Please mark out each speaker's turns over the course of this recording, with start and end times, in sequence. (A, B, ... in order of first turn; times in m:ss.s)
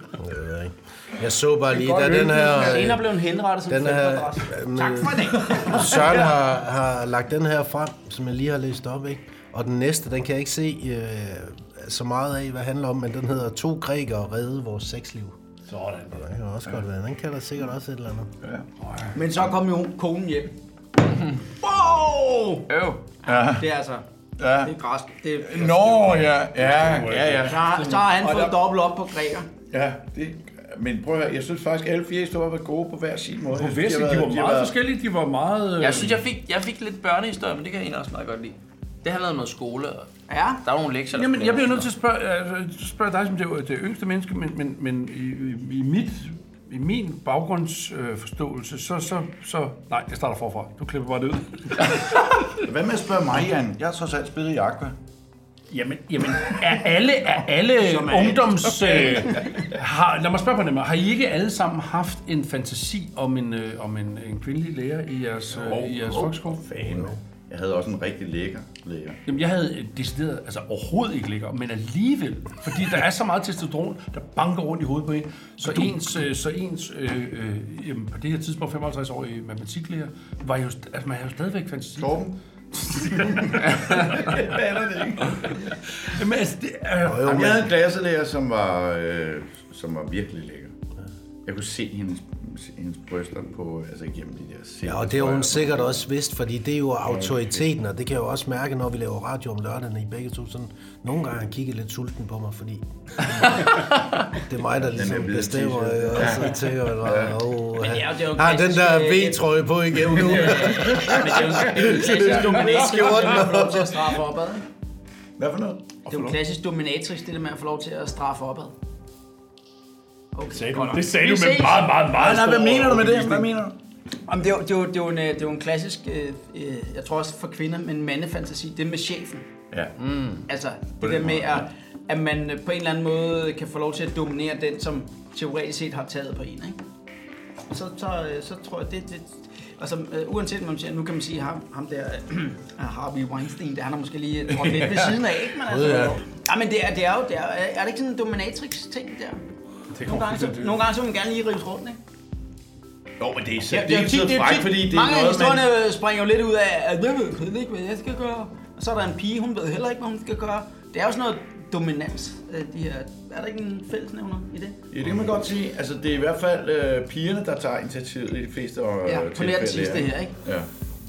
0:00.2-0:03.2 A
0:01.9-0:02.6 B
0:02.0-0:06.4 C
0:03.7-0:15.4 A
0:15.7-0:16.2 B
0:16.1-0:18.3 A
0:18.4-0:18.7 D
0:18.8-0:19.1 B
0:19.1-0:20.5 C
0:21.6-0:22.7 C
0:22.7-0:23.0 E
0:23.2-0:23.7 D
0:23.3-0:24.0 C
0:24.4-0:24.7 D
0:24.6-0:26.3 C
0:25.4-0:28.6 D
0:26.6-0:28.1 B
0:27.4-0:29.5 C
0:29.7-0:34.7 D
0:33.5-0:36.2 B
0:35.8-0:40.1 E
0:40.3-0:40.6 C
0:40.6-0:41.9 E
0:41.1-0:52.4 B
0:52.6-0:55.0 D
0:55.7-1:07.2 B
0:57.8-0:59.6 C
1:05.5-1:09.2 D
1:09.2-1:24.5 B
1:22.0-1:22.4 D
1:22.9-1:25.6 D
1:25.4-1:27.5 B
1:27.0-1:27.7 A
1:27.2-1:30.8 D
1:31.4-1:36.1 D
1:34.8-1:53.8 A
1:37.0-1:37.7 D
1:44.8-1:47.5 D
1:47.8-1:49.4 C
1:50.0-1:54.6 C
1:50.2-1:53.5 D
1:52.2-1:53.2 B
1:55.4-1:55.9 D
1:56.1-1:58.7 C
1:56.1-1:56.4 B
2:00.3-2:01.9 C
2:00.5-2:03.5 B
2:02.1-2:03.8 D
2:04.3-2:09.4 C
2:10.0-2:10.4 E
2:10.5-2:16.8 C
2:11.0-2:11.7 D
2:17.7-2:29.4 C
2:24.5-2:25.2 D
2:25.6-2:26.2 A
2:29.9-2:30.8 B
2:30.0-2:32.0 C
2:33.2-2:35.7 D
2:33.7-2:44.8 C
2:44.9-2:50.7 D
2:49.0-2:50.3 C